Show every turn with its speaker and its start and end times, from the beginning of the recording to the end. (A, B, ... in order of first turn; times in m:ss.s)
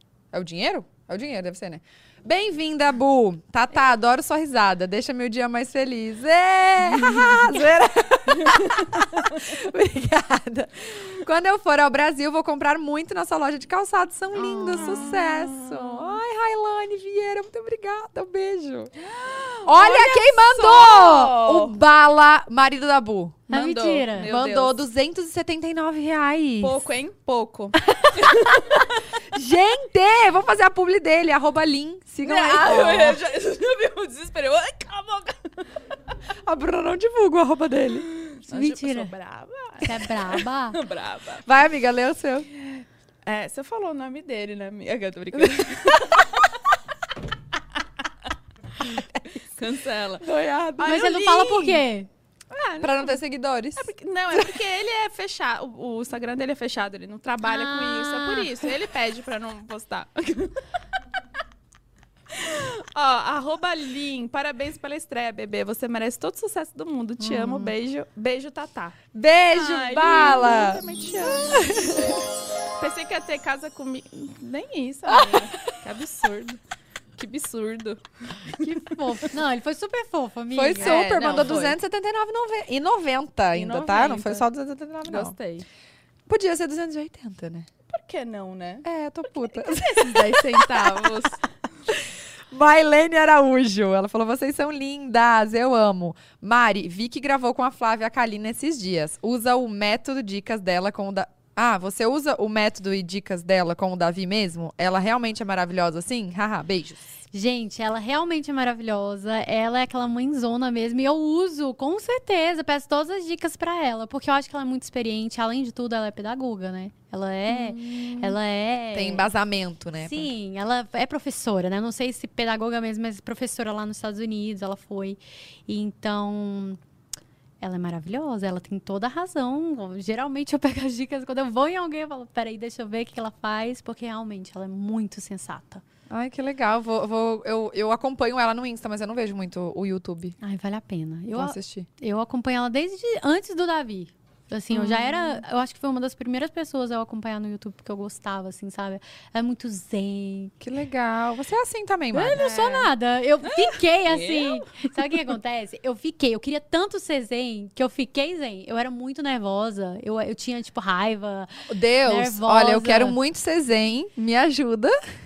0:00.3-0:18.9 A
0:08.4-0:08.9 B
0:14.5-0:16.2 B
0:19.0-0:21.7 B
0:19.6-0:23.5 A
0:23.5-0:24.8 B
0:23.5-0:24.3 C
0:24.2-0:26.8 A
0:26.6-0:28.8 B
0:27.8-0:33.2 A
0:32.2-0:35.7 B
0:36.4-0:38.1 A
0:38.2-0:41.4 B
0:38.5-0:39.1 C
0:39.8-0:40.8 C
0:41.4-0:42.5 A
0:43.2-0:46.3 B
0:45.4-0:45.7 A
0:48.8-0:49.2 A
0:49.4-0:50.3 B
0:50.2-0:51.0 A
0:50.8-0:51.8 B
0:50.8-0:52.1 C
0:52.5-0:53.2 B
0:52.8-0:54.6 A
0:53.8-1:00.6 B
0:57.4-0:58.5 C
1:02.3-1:09.0 B
1:07.2-1:07.7 A
1:09.1-1:12.2 A
1:09.5-1:12.1 B
1:12.8-1:16.6 B
1:15.1-1:15.5 A
1:17.2-1:19.3 B
1:18.6-1:21.7 C
1:20.5-1:25.4 A
1:20.8-1:21.8 B
1:23.5-1:24.5 B
1:25.0-1:25.7 B
1:26.3-1:27.7 A
1:27.9-1:28.8 B
1:28.8-1:31.3 A
1:29.5-1:31.5 B
1:31.9-1:47.2 A
1:47.3-1:59.3 C
1:57.5-1:58.4 A
1:58.9-2:00.3 A
2:00.0-2:06.8 C
2:07.6-2:15.8 C
2:16.1-2:20.4 A
2:20.4-2:30.6 C
2:21.3-2:21.9 A
2:24.7-2:25.3 A
2:30.6-2:32.8 A
2:32.1-2:43.2 C
2:32.3-2:32.8 B
2:33.4-2:35.0 B
2:41.7-2:45.0 A